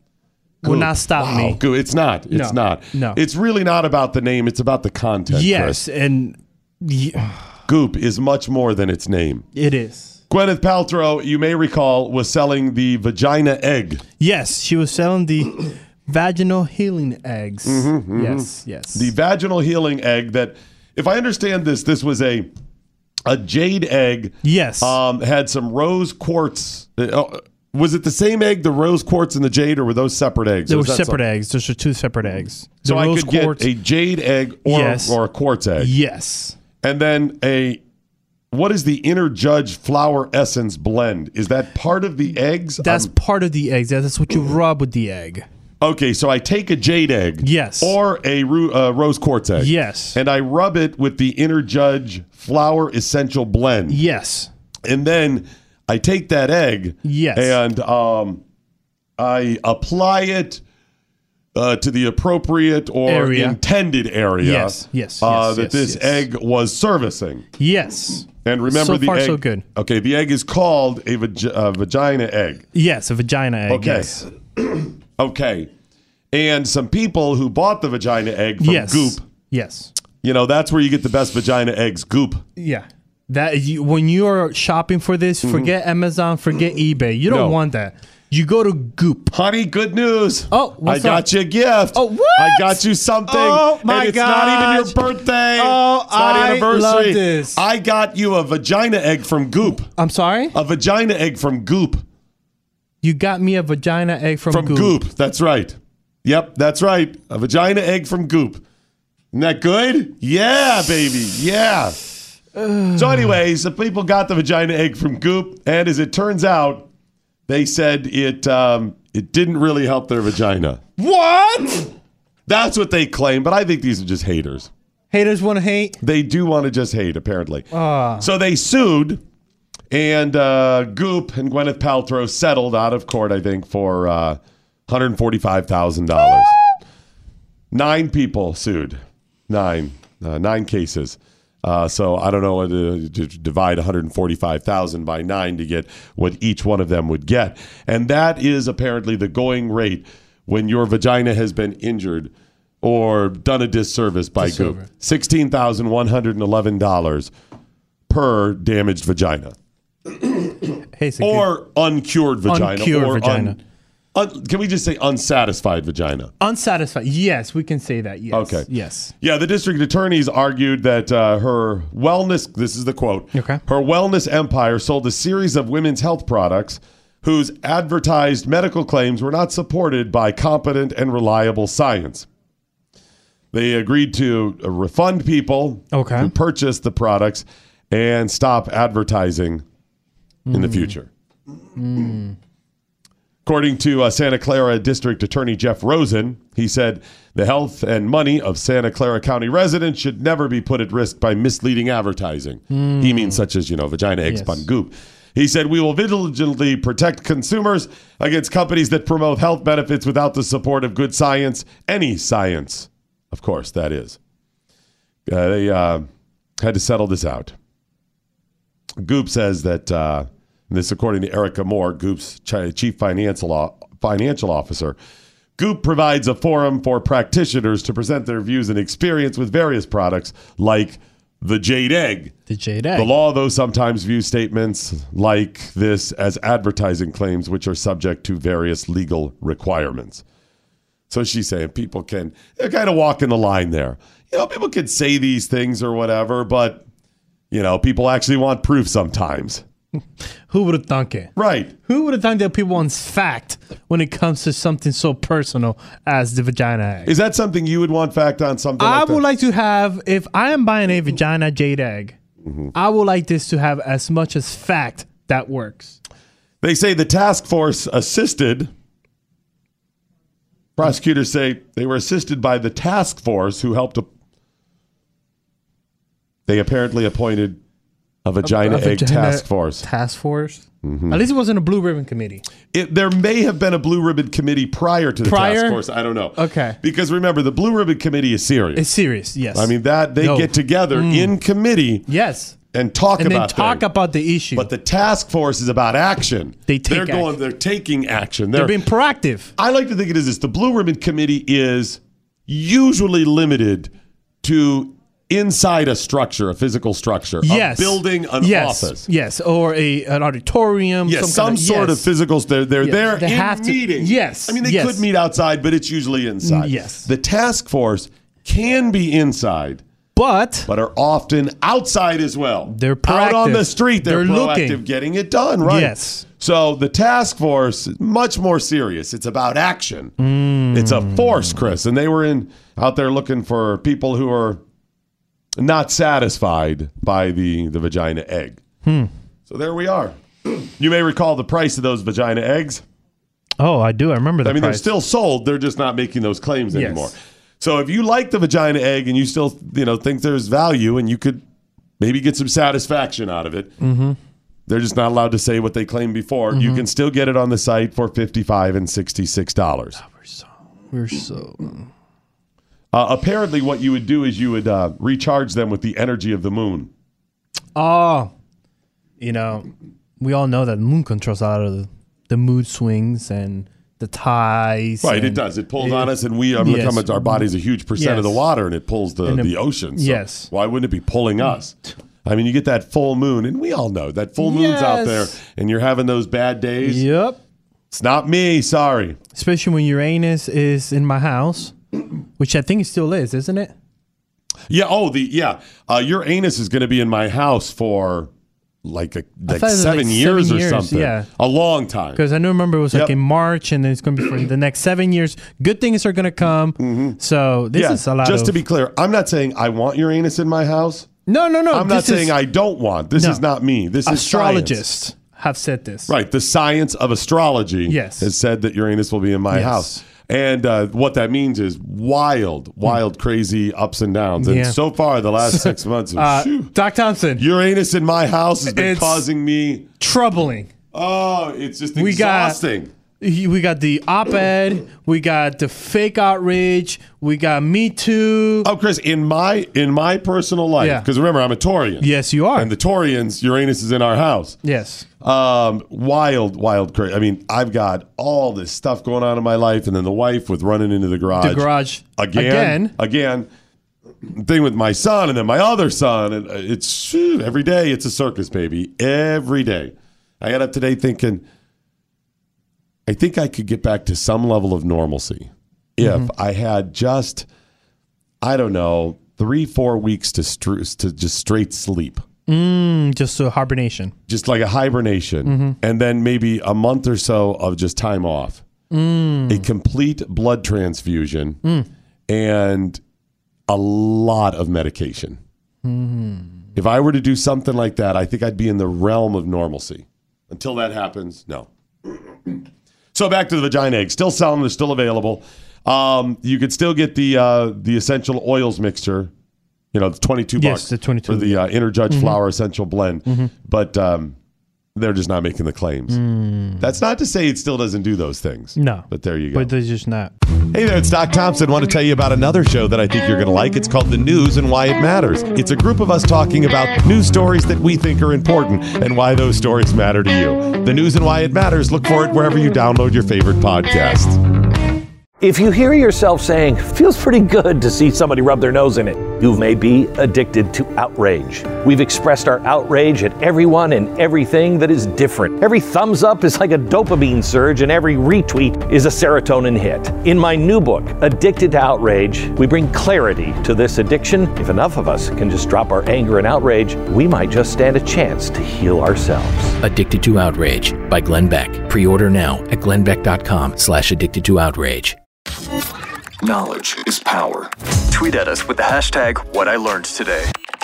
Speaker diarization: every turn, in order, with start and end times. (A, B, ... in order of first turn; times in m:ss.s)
0:00.6-0:01.6 A
0:00.6-0:05.8 B
0:02.3-0:03.2 A
0:05.3-0:07.5 A
0:07.7-0:09.4 B
0:09.5-0:10.2 A
0:10.3-0:14.0 B
0:14.2-0:19.1 A
0:17.6-0:22.5 B
0:23.2-0:31.2 B
0:24.4-0:25.0 A
0:30.7-0:33.7 A
0:32.8-0:35.9 B
0:34.6-0:35.2 A
0:35.8-0:36.6 A
0:36.8-0:37.8 B
0:38.5-0:43.1 B
0:42.8-0:45.4 A
0:45.8-0:54.0 B
0:47.4-0:48.0 A
0:49.6-0:50.2 A
0:53.9-0:54.5 A
0:54.8-0:58.4 B
0:57.0-0:57.6 A
0:59.2-1:00.6 B
1:01.5-1:07.4 B
1:03.0-1:03.6 A
1:04.4-1:06.2 A
1:07.6-1:09.6 A
1:08.4-1:12.6 B
1:12.7-1:14.3 A
1:13.7-1:15.7 B
1:16.3-1:19.2 B
1:18.6-1:19.9 A
1:20.2-1:22.4 B
1:22.6-1:29.3 A
1:25.4-1:25.7 B
1:27.3-1:27.6 B
1:29.3-1:39.9 B
1:30.5-1:31.3 A
1:31.9-1:35.0 A
1:35.6-1:37.6 A
1:40.0-1:40.6 A
1:40.5-1:42.0 B
1:43.0-1:45.0 A
1:44.5-1:48.6 B
1:49.3-1:52.0 B
1:52.6-1:53.0 A
1:52.9-1:56.9 B
1:57.5-2:00.8 B
2:01.0-2:01.9 A
2:02.5-2:04.7 B
2:05.1-2:06.0 A
2:06.0-2:07.7 B
2:07.7-2:08.3 A
2:08.2-2:09.2 B
2:09.9-2:16.6 B
2:17.7-2:32.3 B
2:32.8-2:37.3 B
2:34.4-2:34.8 A
2:38.1-2:39.5 B
2:40.2-2:40.7 B
2:40.9-2:41.5 A
2:41.2-2:43.6 B
2:42.5-2:43.6 A
2:44.1-2:46.3 B
2:46.4-2:49.1 A
2:48.3-2:48.7 B
2:49.2-3:02.3 B
2:53.3-2:53.6 A
3:03.5-3:09.6 B
3:05.9-3:06.3 A
3:10.5-3:10.9 A
3:10.5-3:11.1 B
3:11.8-3:12.4 A
3:13.4-3:34.2 B
3:22.7-3:23.4 A
3:24.3-3:24.7 A
3:35.3-3:36.0 B
3:36.6-3:37.5 B
3:39.0-3:45.0 B
3:45.6-3:52.3 B
3:52.5-3:53.1 A
3:52.9-4:00.2 B
4:01.1-4:06.8 B
4:07.5-4:09.6 B
4:10.5-4:11.3 A
4:11.4-4:11.7 B
4:11.8-4:17.1 A
4:17.0-4:19.4 B
4:18.8-4:22.2 A
4:22.7-4:26.0 A
4:26.6-4:28.7 B
4:30.8-4:34.1 B
4:36.5-4:37.6 B
4:38.2-4:39.8 B
4:38.4-4:42.4 A
4:40.8-4:41.2 B
4:42.7-4:48.9 B
4:45.2-4:46.8 A
4:48.7-4:51.3 A
4:49.5-4:52.0 B
4:52.1-4:52.5 A
4:52.7-4:53.9 B
4:53.2-4:54.7 A
4:54.5-4:58.8 B
4:56.7-4:57.4 A
4:58.5-4:59.5 A
4:59.6-5:03.9 B
5:04.4-5:09.1 B
5:07.4-5:12.1 A
5:11.0-5:19.8 B
5:12.8-5:15.0 A
5:16.4-5:17.1 A
5:20.1-5:20.7 A
5:20.7-5:30.2 B
5:22.7-5:24.8 A
5:25.6-5:26.2 A
5:30.2-5:31.6 A
5:30.7-5:34.6 B
5:35.6-5:38.6 B
5:38.8-5:39.1 A
5:39.5-5:42.8 B
5:43.6-5:44.9 A
5:44.4-5:51.4 B
5:46.7-5:47.1 A
5:52.0-5:53.7 B
5:53.8-5:54.2 A
5:54.7-6:00.0 B
5:56.5-5:56.9 A
6:00.0-6:01.9 A
6:02.9-6:06.9 B
6:07.7-6:08.3 A
6:09.2-6:18.4 A
6:15.0-6:27.1 B
6:19.2-6:20.5 A
6:24.4-6:25.3 A
6:26.8-6:27.4 A
6:27.9-6:29.2 B
6:29.3-6:31.8 A
6:32.4-6:33.7 A
6:34.7-6:38.3 B
6:38.8-6:42.2 B
6:39.5-6:41.3 A
6:42.1-6:48.6 A
6:46.8-6:47.2 B
6:47.7-6:51.1 B
6:51.2-6:52.4 A
6:51.7-6:54.8 B
6:53.1-6:53.4 A
6:54.0-6:56.1 A
6:56.1-7:06.8 B
6:57.9-6:58.3 A
6:59.5-7:00.0 A
7:04.4-7:04.8 A
7:05.4-7:07.4 A
7:07.4-7:09.9 B
7:08.6-7:09.2 A
7:10.0-7:10.7 A
7:10.9-7:12.9 B
7:11.9-7:12.6 A
7:13.2-7:18.7 A
7:18.6-7:24.6 B
7:20.8-7:21.1 A
7:22.0-7:22.7 A
7:24.6-7:25.0 A
7:25.2-7:33.5 B
7:31.4-7:33.0 A
7:34.2-7:41.4 B
7:43.1-7:47.5 B
7:46.0-7:46.3 A
7:48.4-7:52.2 B
7:52.5-7:54.1 A
7:54.3-7:58.6 B
7:55.4-7:55.8 A
7:58.9-7:59.7 A
7:59.5-8:01.6 B
8:02.3-8:03.0 B
8:03.7-8:05.4 B
8:05.8-8:06.6 A
8:06.8-8:12.6 B
8:13.1-8:19.3 B
8:19.9-8:24.4 B
8:20.6-8:22.4 A
8:23.2-8:23.5 A
8:24.9-8:26.2 B
8:26.1-8:26.9 A
8:26.8-8:29.7 B
8:28.8-8:30.3 A
8:30.7-8:44.4 B
8:45.4-9:09.8 C
9:09.8-9:15.2 D
9:16.4-9:20.5 E